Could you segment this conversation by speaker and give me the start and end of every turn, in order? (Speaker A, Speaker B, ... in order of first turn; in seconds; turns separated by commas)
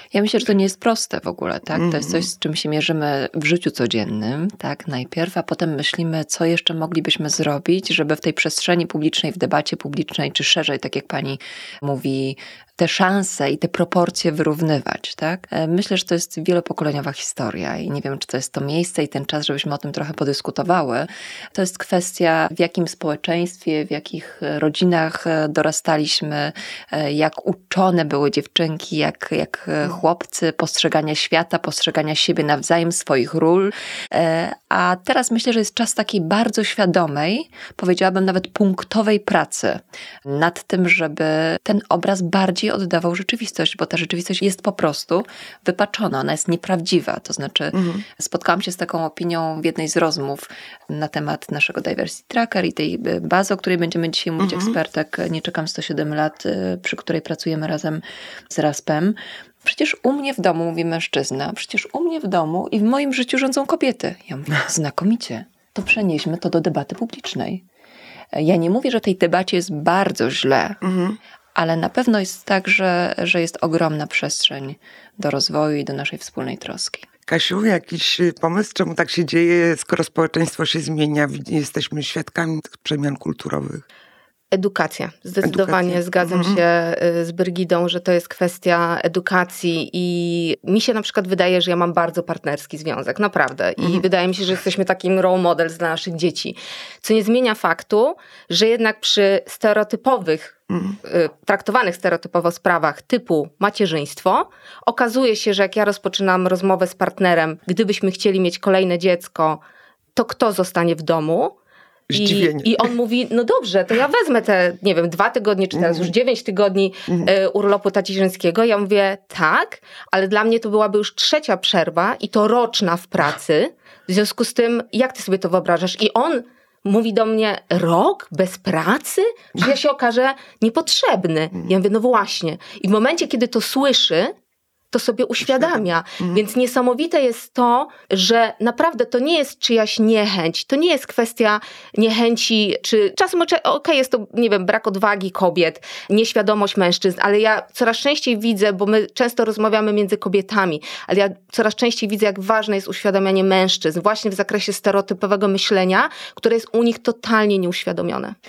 Speaker A: 0.1-67.6, Speaker B: 1.8-2.2, Speaker B: 47.8-48.0, Speaker B: 54.4-54.8, Speaker A: 68.3-70.8, Speaker B: 70.8-71.2, Speaker A: 71.6-77.1, Speaker B: 77.3-83.8, Speaker C: 84.5-109.6, Speaker B: 85.4-86.6, Speaker B: 100.7-101.0, Speaker C: 110.2-111.5, Speaker B: 112.1-112.9, Speaker C: 112.1-134.3, Speaker B: 115.8-116.1, Speaker C: 134.9-158.3